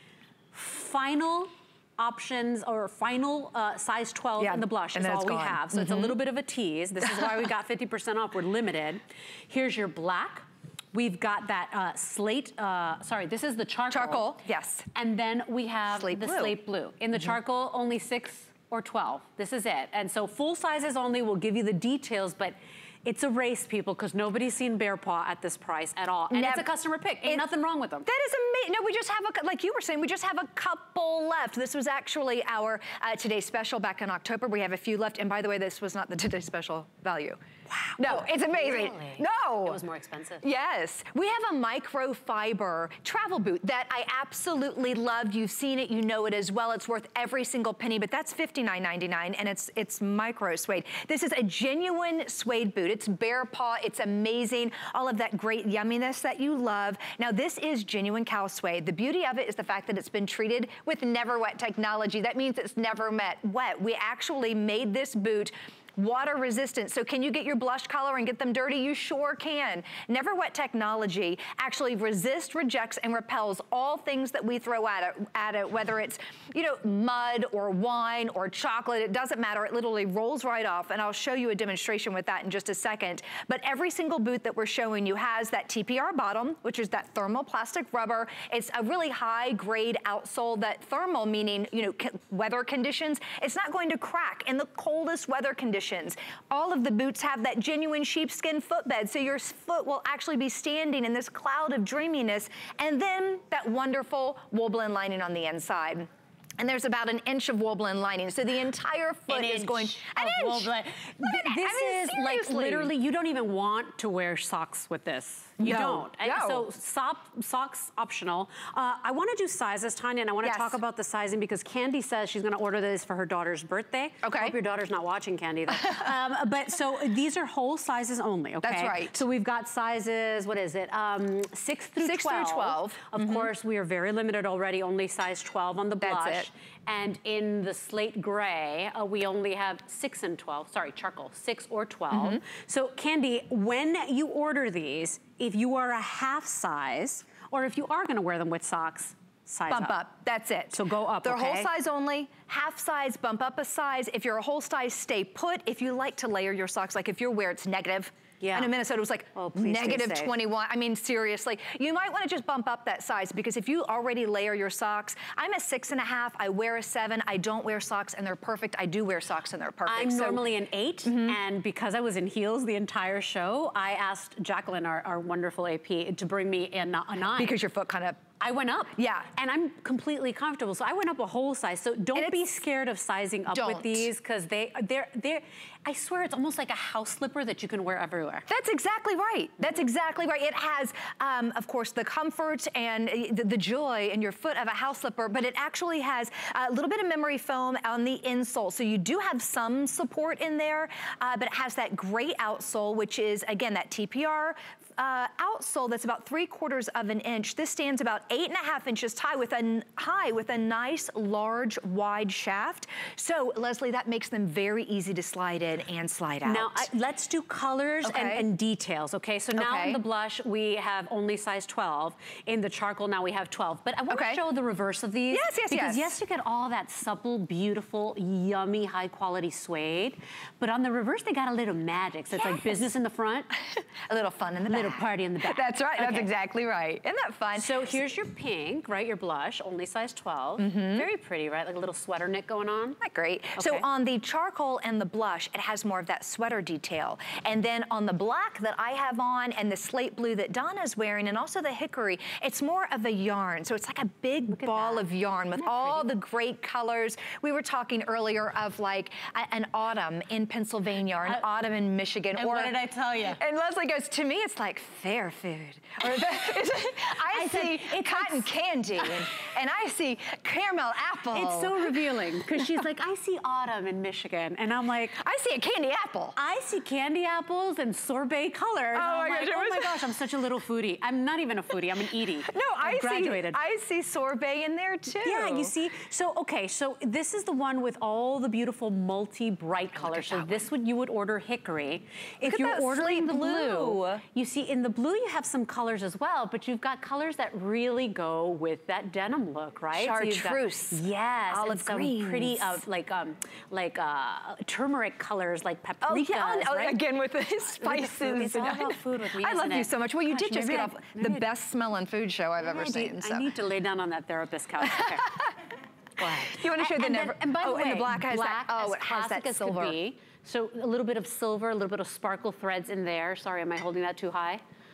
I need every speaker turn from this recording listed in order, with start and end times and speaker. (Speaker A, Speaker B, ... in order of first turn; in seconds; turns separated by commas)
Speaker A: 0.5-14.4, Speaker B: 4.4-6.2, Speaker B: 13.9-14.9, Speaker A: 14.9-28.1, Speaker B: 15.9-16.6, Speaker B: 26.3-26.7, Speaker B: 28.0-37.4, Speaker A: 37.9-40.5, Speaker B: 38.0-39.8, Speaker B: 40.4-112.9, Speaker A: 109.3-150.1, Speaker B: 115.6-116.7, Speaker B: 120.4-120.8, Speaker B: 124.2-124.6, Speaker B: 125.7-126.1, Speaker B: 128.6-129.2, Speaker B: 132.0-133.5, Speaker B: 136.0-136.5, Speaker B: 142.1-142.4, Speaker B: 149.7-170.5, Speaker A: 150.7-151.7, Speaker A: 158.4-158.8, Speaker A: 159.3-160.4, Speaker A: 169.9-177.6, Speaker B: 171.1-171.4, Speaker B: 177.3-178.2, Speaker A: 178.4-188.4, Speaker B: 178.9-179.3, Speaker B: 182.2-182.4, Speaker B: 183.5-184.1, Speaker B: 188.5-216.9, Speaker A: 216.4-233.5, Speaker B: 218.0-218.5, Speaker B: 219.6-220.0, Speaker B: 224.1-224.4, Speaker B: 225.3-226.2, Speaker B: 232.3-232.9, Speaker B: 234.1-238.0, Speaker A: 234.7-236.3, Speaker A: 237.6-243.0, Speaker B: 240.6-241.1, Speaker B: 243.0-262.8, Speaker A: 243.6-243.8, Speaker A: 254.5-256.1, Speaker A: 262.4-263.4, Speaker B: 263.3-272.0, Speaker A: 266.0-269.3, Speaker A: 271.3-275.2, Speaker B: 272.6-272.8, Speaker B: 275.2-276.4, Speaker A: 276.4-283.6, Speaker B: 278.9-280.1, Speaker B: 282.4-285.8, Speaker A: 285.2-311.5, Speaker B: 289.9-290.7, Speaker B: 292.4-294.2, Speaker B: 299.9-302.8, Speaker B: 306.0-313.5, Speaker A: 312.6-315.3, Speaker B: 314.8-315.5, Speaker B: 316.2-320.0, Speaker A: 316.2-324.6